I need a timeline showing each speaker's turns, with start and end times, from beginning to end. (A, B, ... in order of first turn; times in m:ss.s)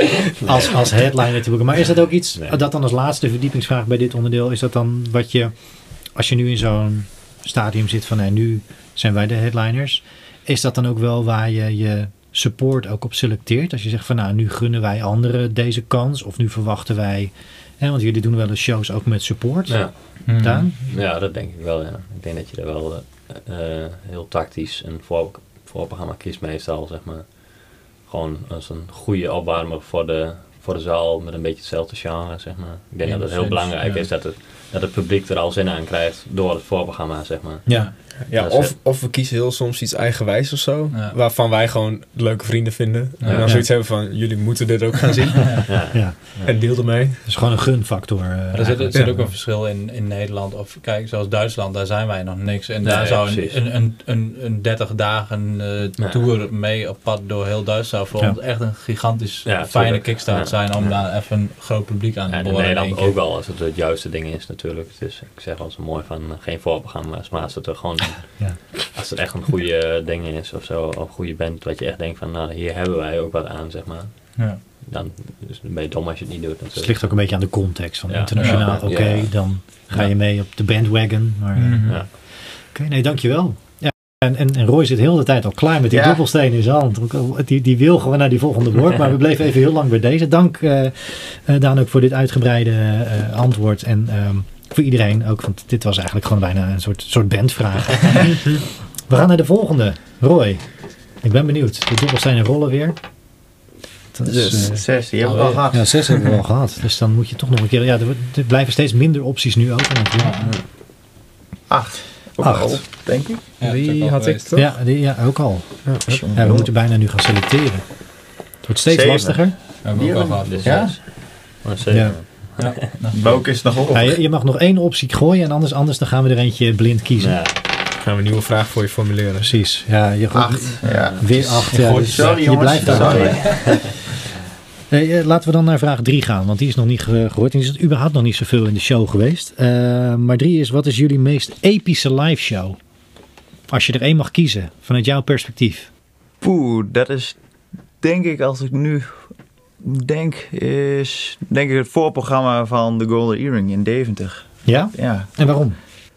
0:00.4-0:00.7 A
0:00.4-0:20.8 B
0:19.7-0:38.7 A
0:20.2-0:20.7 C
0:33.0-0:33.6 B
0:33.2-0:34.1 C
0:37.6-0:37.9 B
0:37.7-0:37.9 C
0:38.2-0:45.7 D
0:43.2-0:43.5 C
0:43.2-0:43.6 A
0:43.4-0:43.7 B
0:45.6-0:46.5 A
0:45.9-0:49.3 B
0:46.4-0:47.2 D
0:48.5-1:03.2 C
0:48.9-0:49.2 D
0:52.8-0:53.7 A
0:56.0-0:56.3 A
0:59.4-1:01.1 A
1:02.3-1:17.5 A
1:14.4-1:14.6 C
1:16.7-1:43.0 B
1:18.1-1:20.1 A
1:18.4-1:18.8 C
1:21.6-1:22.0 C
1:25.9-1:26.2 E
1:44.1-1:50.5 B
1:44.2-1:44.7 D
1:44.5-1:45.9 E
1:45.2-1:46.2 C
1:50.2-1:50.5 C
1:51.7-1:53.4 E
1:52.3-1:52.8 B
1:53.6-1:54.7 C
1:53.6-1:54.8 D
1:54.5-1:59.6 B
1:55.8-1:56.3 D
1:56.0-1:56.7 E
1:58.9-2:01.0 E
1:59.8-2:00.9 C
2:00.4-2:03.0 A
2:00.6-2:01.4 B
2:01.9-2:02.2 B
2:02.6-2:03.6 C
2:03.1-2:04.2 E
2:03.9-2:07.4 B
2:07.2-2:07.6 A
2:08.0-2:09.6 D
2:09.4-2:13.7 B
2:10.3-2:13.7 E
2:10.8-2:14.0 C
2:10.8-2:11.4 A
2:12.9-2:14.0 A
2:14.9-2:22.8 B
2:23.7-2:25.9 B
2:26.4-2:35.6 E
2:34.6-2:35.8 B